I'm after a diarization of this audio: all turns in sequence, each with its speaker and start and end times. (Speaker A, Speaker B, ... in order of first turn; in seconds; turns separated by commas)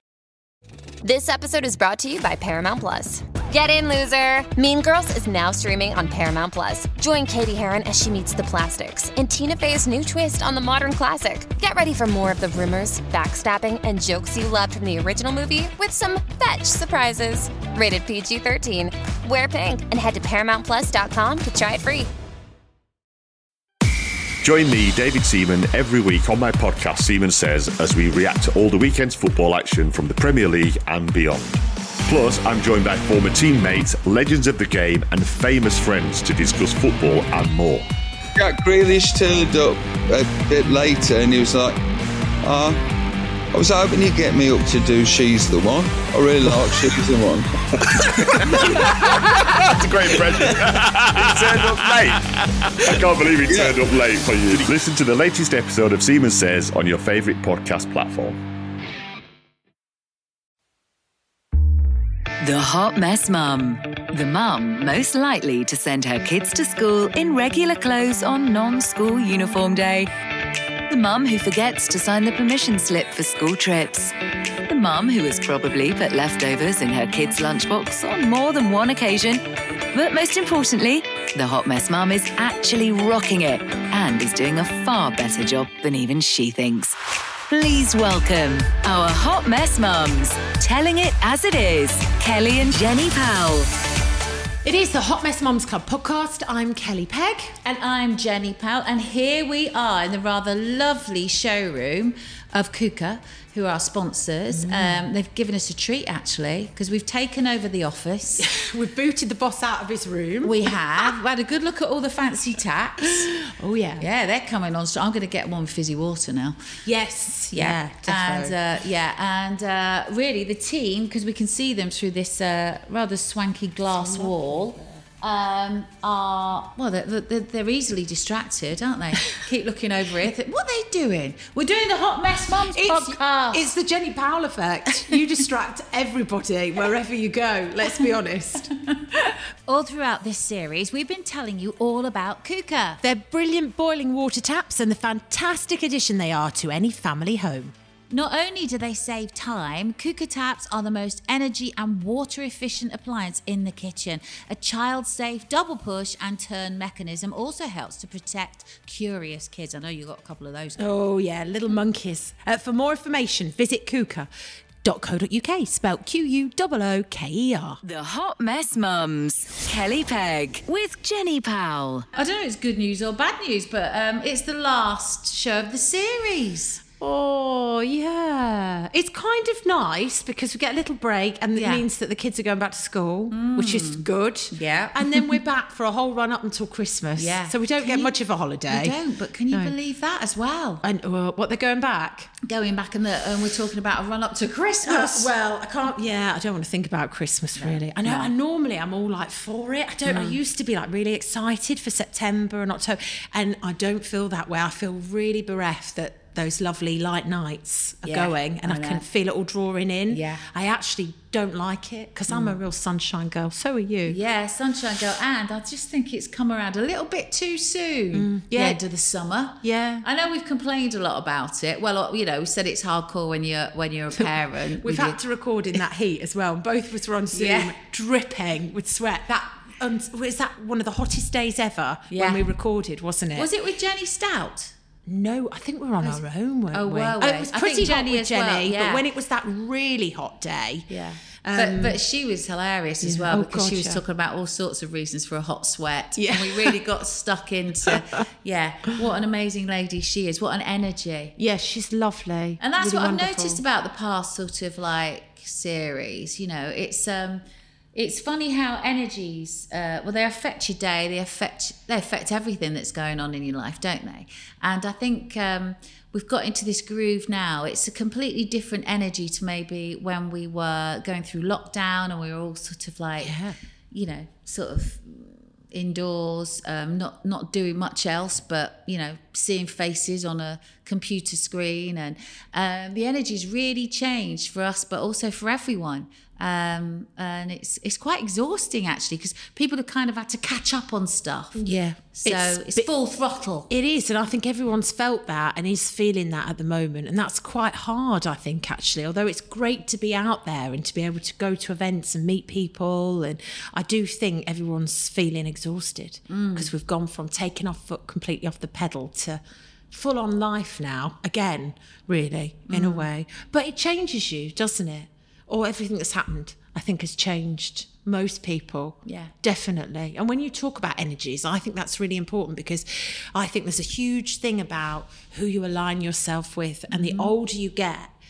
Speaker A: 1.0-22.1, Speaker B: 24.4-37.9, Speaker C: 38.4-41.8, Speaker C: 42.4-42.9, Speaker C: 43.5-49.6, Speaker B: 47.9-58.4, Speaker C: 53.5-53.8, Speaker D: 62.4-70.1, Speaker D: 70.9-74.1, Speaker D: 74.7-87.0, Speaker D: 87.5-93.7, Speaker E: 94.6-97.6, Speaker F: 97.6-108.5, Speaker E: 104.5-105.1, Speaker E: 108.4-111.1, Speaker F: 110.4-113.3, Speaker E: 113.0-114.0, Speaker F: 114.0-116.8, Speaker E: 116.8-118.6, Speaker F: 117.5-133.7, Speaker E: 123.9-125.0, Speaker E: 132.7-138.7, Speaker F: 139.7-143.0, Speaker E: 143.0-147.7, Speaker F: 148.1-160.8, Speaker E: 160.8-164.3, Speaker E: 164.8-167.8, Speaker D: 167.8-172.1, Speaker F: 172.1-176.8, Speaker E: 177.0-189.0, Speaker F: 181.5-181.8, Speaker F: 183.3-185.4, Speaker F: 187.2-188.1, Speaker F: 188.7-190.8, Speaker E: 190.8-192.3, Speaker F: 192.4-195.3, Speaker E: 194.8-214.2, Speaker F: 197.6-198.3, Speaker F: 200.1-200.3, Speaker F: 208.0-209.1, Speaker F: 210.1-210.5, Speaker F: 212.3-212.6, Speaker F: 214.1-225.2, Speaker E: 218.1-218.8, Speaker E: 219.6-220.1, Speaker E: 224.2-233.5, Speaker F: 227.3-227.7, Speaker F: 232.1-232.5, Speaker F: 233.3-234.7, Speaker E: 235.1-240.9, Speaker F: 236.7-239.0, Speaker F: 240.9-251.3, Speaker E: 241.4-242.0, Speaker E: 243.0-244.0, Speaker E: 246.2-246.8, Speaker E: 251.4-253.6, Speaker F: 252.6-257.4, Speaker F: 257.9-273.4, Speaker E: 273.2-273.6, Speaker F: 273.9-293.7, Speaker E: 291.6-292.9, Speaker E: 293.7-328.1, Speaker F: 306.3-306.7, Speaker F: 312.7-313.1, Speaker F: 319.0-319.3, Speaker F: 326.9-327.3